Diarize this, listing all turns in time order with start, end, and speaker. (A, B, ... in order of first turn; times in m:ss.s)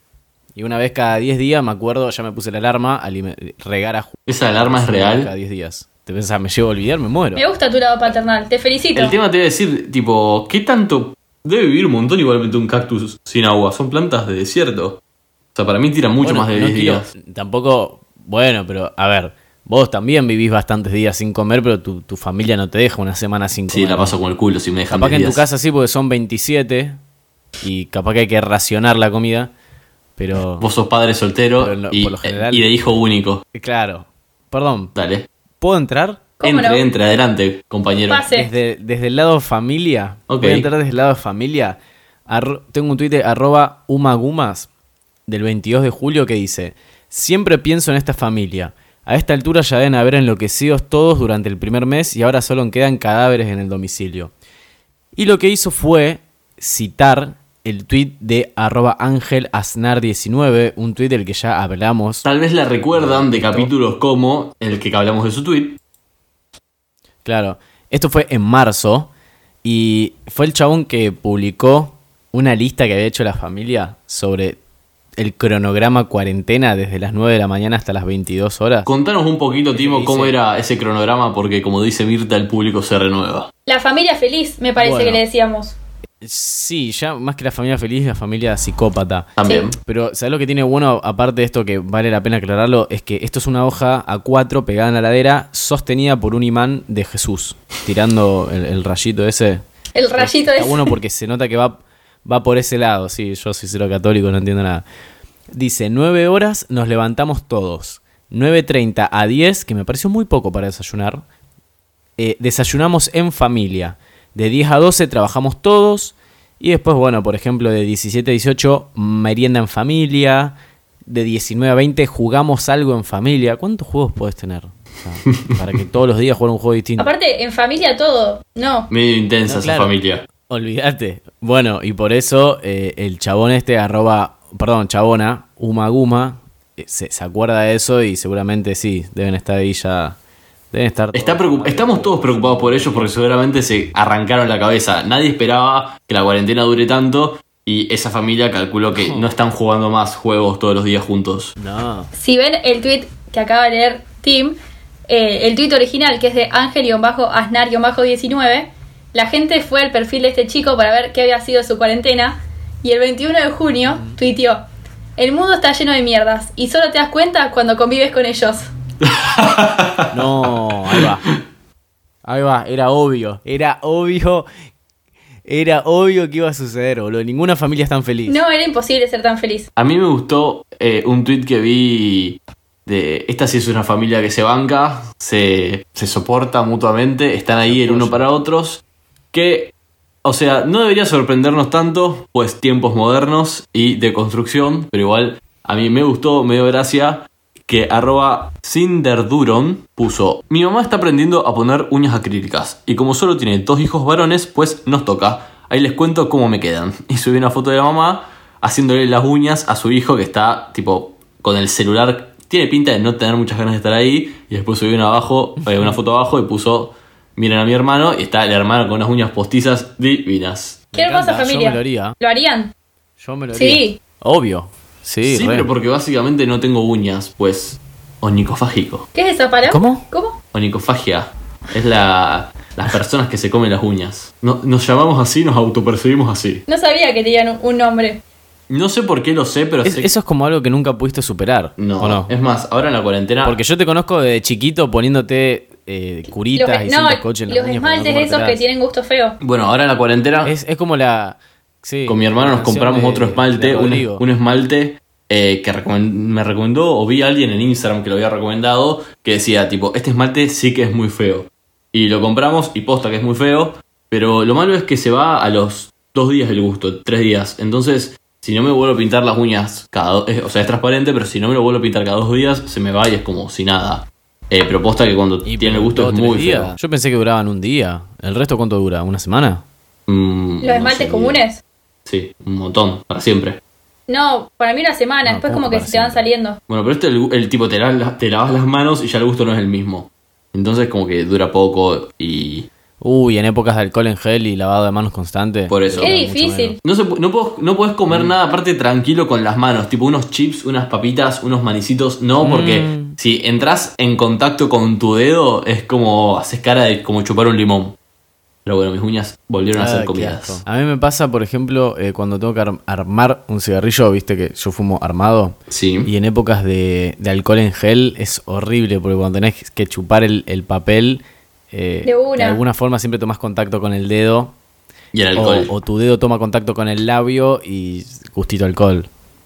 0:00.6-0:07.4 A
0:04.3-0:05.3 B
0:07.4-0:09.2 C
0:09.0-0:15.0 B
0:15.6-0:17.1 B
0:16.2-0:24.1 A
0:23.7-0:25.4 B
0:24.9-0:27.0 A
0:27.6-0:29.5 A
0:30.2-0:30.7 A
0:30.6-0:33.4 B
0:31.6-0:32.7 A
0:33.5-0:34.9 A
0:35.0-0:35.3 B
0:35.6-0:36.2 A
0:36.4-0:36.8 C
0:36.4-0:38.3 B
0:38.1-0:38.5 C
0:38.3-0:44.7 A
0:40.3-0:40.7 B
0:45.3-0:54.3 A
0:55.2-1:02.2 A
1:02.2-1:05.8 B
1:02.9-1:03.7 A
1:07.2-1:09.1 A
1:09.6-1:14.6 A
1:15.2-1:18.9 A
1:18.9-1:23.5 B
1:19.7-1:20.4 A
1:23.7-1:25.8 C
1:24.8-1:25.2 A
1:26.2-1:39.6 A
1:29.4-1:29.8 B
1:40.0-1:40.9 C
1:40.2-1:44.8 A
1:45.5-1:51.2 A
1:52.2-2:07.1 A
2:07.0-2:08.9 C
2:08.9-2:10.2 B
2:09.5-2:09.9 A
2:10.5-2:20.2 A
2:20.7-2:23.1 A
2:21.1-2:31.5 B
2:29.0-2:29.3 A
2:31.6-2:32.1 A
2:32.1-2:34.6 C
2:35.1-2:44.6 C
2:43.9-2:44.2 A
2:45.2-2:48.7 C
2:49.0-2:50.2 B
2:50.1-2:51.2 A
2:52.2-2:54.5 A
2:55.5-2:58.4 A
2:58.2-2:59.7 C
2:59.8-3:08.8 B
3:07.6-3:08.3 A
3:09.3-3:09.7 B
3:10.2-3:40.8 B
3:35.6-3:36.0 A
3:40.9-3:42.1 A
3:40.9-3:42.7 C
3:43.2-3:45.7 A
3:43.5-3:44.0 C
3:45.2-3:49.1 B
3:49.1-3:50.4 C
3:49.6-3:50.0 A
3:50.5-3:56.6 B
3:56.7-3:58.2 C
3:58.7-4:00.1 B
3:59.8-4:02.3 A
4:01.8-4:03.6 B
4:03.4-4:08.6 A
4:06.5-4:09.4 C
4:09.4-4:10.5 B
4:10.4-4:14.2 A
4:12.1-4:36.7 B
4:35.4-4:39.6 A
4:40.1-4:41.4 B
4:40.6-4:41.6 C
4:42.1-4:43.6 B
4:44.1-4:46.6 C
4:45.2-4:46.2 A
4:46.7-4:52.7 B
4:53.0-4:56.8 A
4:55.7-4:56.2 B
4:56.0-4:56.8 C
4:56.8-5:08.0 B
5:02.4-5:03.2 A
5:08.6-5:10.6 B
5:09.8-5:24.6 A
5:15.7-5:16.1 B
5:22.0-5:22.6 C
5:25.1-5:25.7 B
5:25.4-5:29.1 A